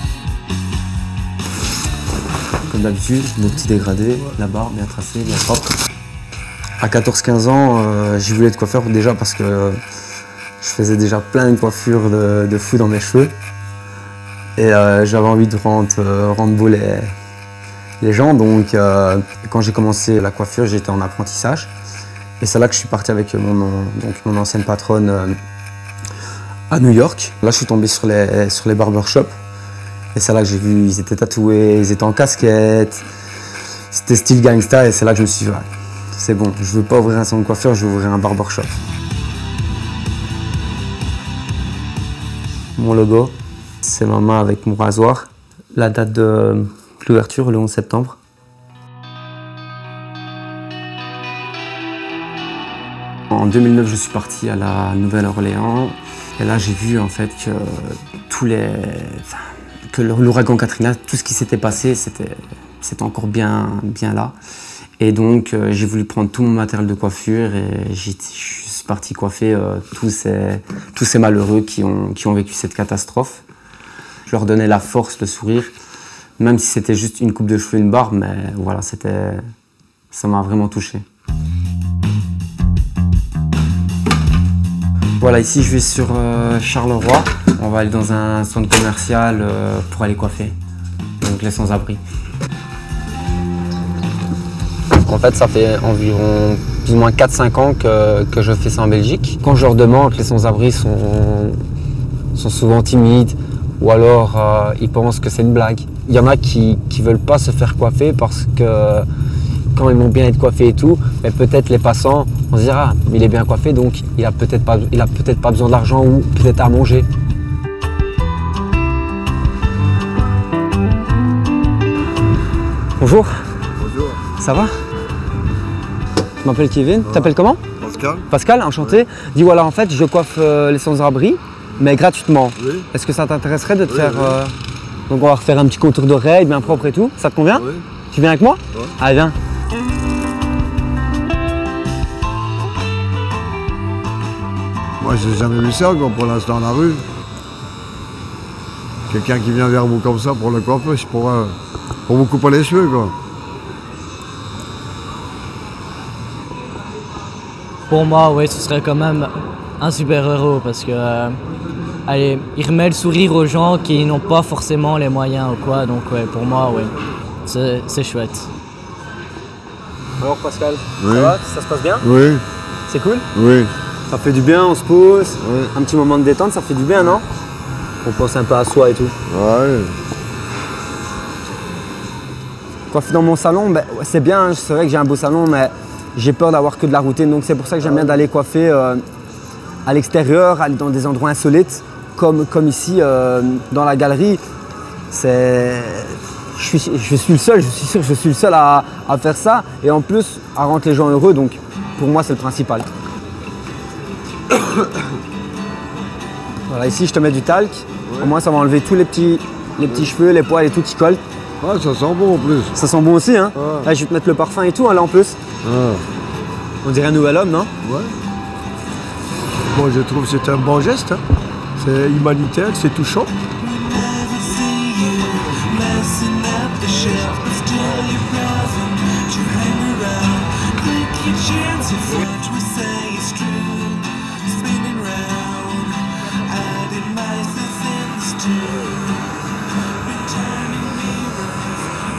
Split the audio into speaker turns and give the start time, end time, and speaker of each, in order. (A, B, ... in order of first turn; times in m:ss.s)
0:02.7-0:05.8 A
0:06.8-0:09.8 A
0:10.6-0:13.3 A
0:14.6-0:17.1 A
0:18.0-0:21.7 A
0:22.4-0:25.4 A
0:26.7-0:29.3 A
0:30.2-0:33.0 A
0:33.9-0:38.8 A
0:42.8-0:48.2 A
0:53.3-1:04.4 A
1:05.0-1:13.4 A
1:14.3-1:15.7 A
1:16.4-1:19.4 A
1:20.1-1:21.0 A
1:25.2-1:30.6 A
1:31.2-1:32.0 A
1:34.9-1:41.6 A
1:42.4-1:49.1 A
1:49.8-1:57.1 A
2:03.0-2:03.3 A
2:03.8-2:04.2 B
2:04.4-2:04.7 A
2:06.4-2:07.6 A
2:07.0-2:08.3 B
2:08.3-2:14.5 A
2:12.6-2:12.8 B
2:13.9-2:14.4 B
2:15.1-2:19.4 A
2:17.6-2:17.8 B
2:25.0-2:27.0 B
2:29.1-2:33.2 B
2:37.9-2:41.4 C
2:42.1-2:47.0 C
2:47.5-2:48.5 C
2:50.2-2:52.1 A
2:51.0-2:51.4 B
2:52.0-2:52.4 B
2:52.9-2:53.3 A
2:53.3-2:53.7 B
2:54.1-2:57.3 A
2:58.0-2:59.2 A
2:59.3-2:59.9 B
3:02.9-3:09.0 A
3:09.8-3:14.4 A
3:15.1-3:22.9 A
3:26.7-3:31.2 A
3:28.1-3:28.3 B
3:31.6-3:32.8 B
3:32.7-3:35.4 A
3:33.6-3:33.9 B
3:35.6-3:36.0 B
3:36.8-3:37.7 A
3:37.8-3:38.1 B
3:39.7-3:40.1 B
3:39.8-3:41.2 D
3:41.8-3:43.3 D
3:44.2-3:48.9 D
3:49.4-3:49.7 D
3:51.0-3:51.3 D
3:52.0-3:52.9 D
3:54.9-3:55.2 D